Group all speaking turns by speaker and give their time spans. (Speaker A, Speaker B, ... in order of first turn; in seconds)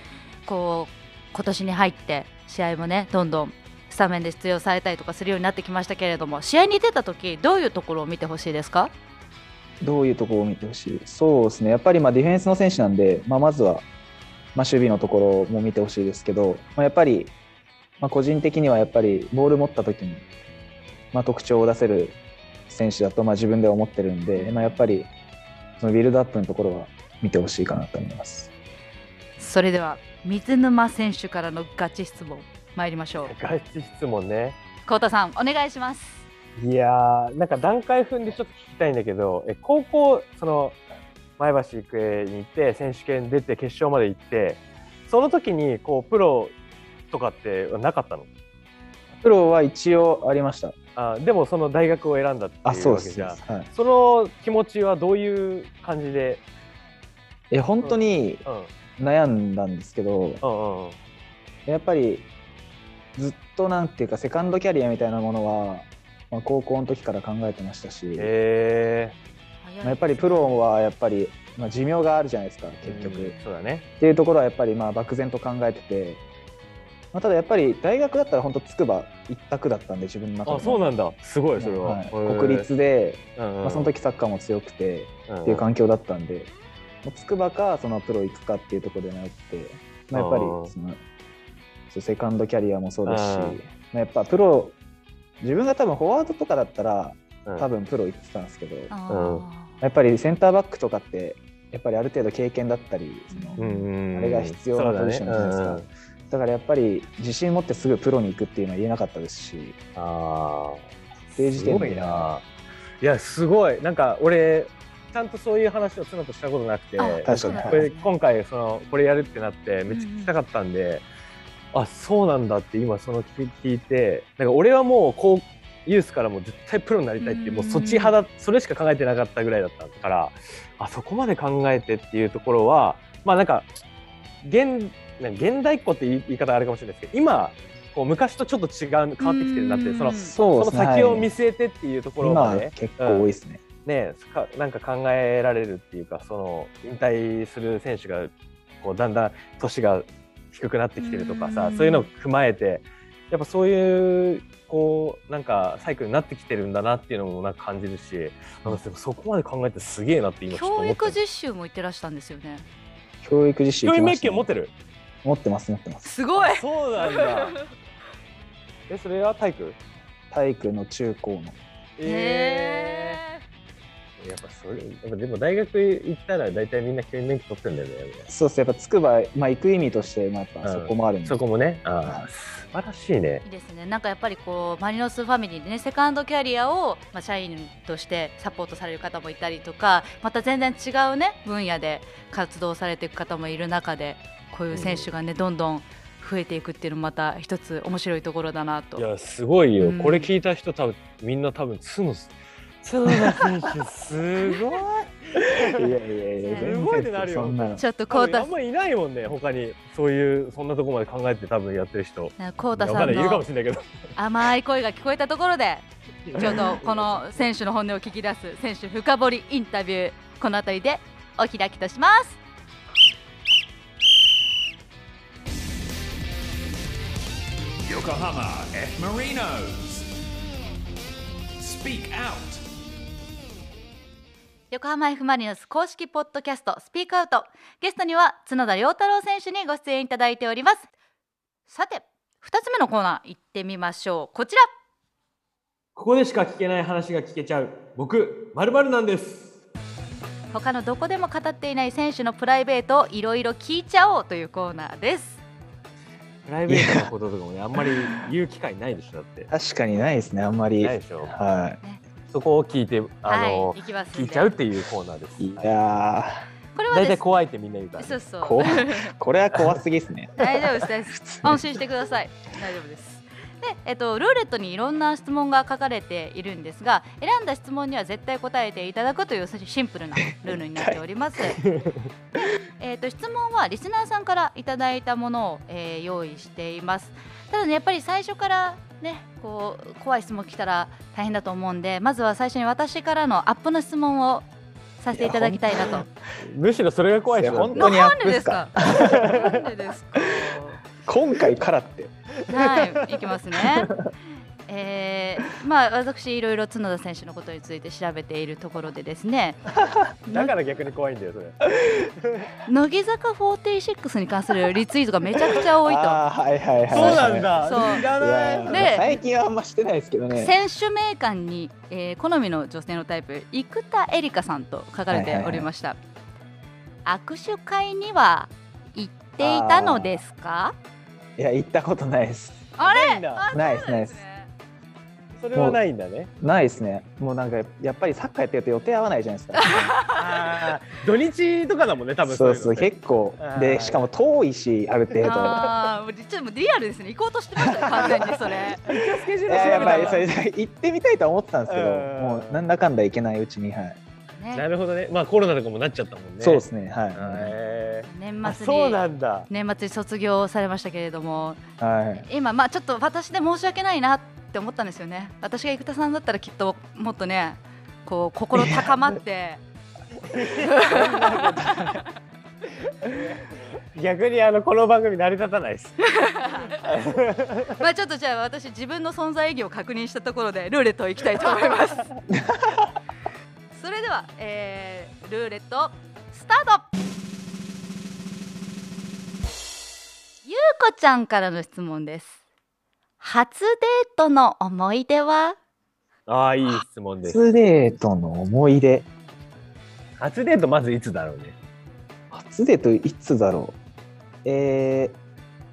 Speaker A: 0.5-8.9, 24.4-24.8, 29.4-33.3, 34.9-36.2, 69.6-70.6, 98.9-99.8, 103.3-103.9, 117.0-118.1, 119.9-120.3, 127.2-128.2, 139.2-140.3, 151.0-152.1, 160.5-162.7, 166.0-167.6, 172.0-173.4, 183.4-199.1, 199.8-200.3, 206.4-206.7, 207.8-208.5, 212.4-213.4, 214.2-222.4, 234.7-240.9, 241.7-244.7, 250.5-255.4, 263.2-264.6, 266.8-267.4, 268.0-269.1, 270.4-281.6, 282.4-294.5, 295.0-296.1, 297.8-300.8, 302.5-303.9, 304.7-309.6, 310.3-310.5, 312.7-316.2, 316.9-318.1, 318.7-319.1, 320.3-326.0, 327.1-330.8, 332.8-334.5, 339.6-340.2, 345.2-348.8, 349.6-350.3, 354.4-354.6, 358.1-361.6, 362.2-369.6, 370.6-372.1, 376.0-376.9, 377.8-382.1, 383.7-386.9, 390.4-392.4, 393.2-395.6
Speaker B: 9.8-13.8, 14.6-17.3, 18.0-20.2, 21.1-22.2, 22.7-25.1, 25.8-28.5, 49.1-50.8, 52.6-53.7, 57.5-58.4, 59.0-60.4, 61.7-62.3, 63.1-68.3, 69.8-73.4, 74.0-76.2, 77.1-80.9, 81.6-86.5, 87.0-91.0, 91.9-94.8, 95.4-98.9, 99.8-103.6, 104.1-109.8, 111.4-112.3, 117.2-117.9, 140.2-141.3, 142.2-143.6, 163.2-164.5, 165.2-166.1, 170.3-171.6, 178.3-181.4, 203.1-203.7, 205.4-207.8, 256.7-257.1, 259.5-261.8, 265.4-266.5, 268.4-271.8, 280.4-281.6, 295.1-295.9, 297.3-299.5, 301.0-302.1, 303.6-304.1, 309.8-310.1, 315.6-320.6, 325.1-325.7, 329.4-330.2, 331.4-332.7, 333.5-334.2, 335.5-335.8, 336.4-339.9, 342.3-345.7, 347.7-348.2, 349.5-354.0, 356.4-357.6, 361.8-362.3, 371.4-371.9, 382.3-382.9, 397.2-399.1, 402.3-403.8, 404.4-405.2
Speaker C: 33.2-34.6, 36.6-40.8, 41.4-46.5, 47.1-48.3, 51.0-56.4, 57.8-58.7, 60.4-61.0, 68.2-69.2, 72.8-73.9, 80.5-82.7, 83.4-83.9, 85.3-85.6, 90.1-90.7, 93.1-93.6, 99.1-99.5, 103.6-105.9, 110.0-112.4, 113.0-121.0, 121.7-133.7, 134.4-143.3, 143.8-161.2, 163.8-164.7, 166.4-167.6, 168.9-169.8, 172.0-173.2, 174.2-178.3, 180.6-183.4, 194.7-195.1, 199.0-206.0, 206.5-213.9, 216.3-217.5, 246.0-249.6, 256.5-259.5, 260.8-261.4, 262.3-265.7, 266.9-268.2, 281.6-282.1, 296.4-297.9, 299.0-299.7, 302.6-303.2, 310.3-311.6, 312.2-312.5, 316.9-318.9, 332.8-333.5, 335.4-336.3, 340.1-344.1, 348.8-350.3, 351.7-352.7, 354.5-359.5, 370.2-371.8, 373.1-376.0, 376.7-377.8, 396.3-397.4, 400.2-401.6
Speaker D: 227.8-230.1, 231.6-232.6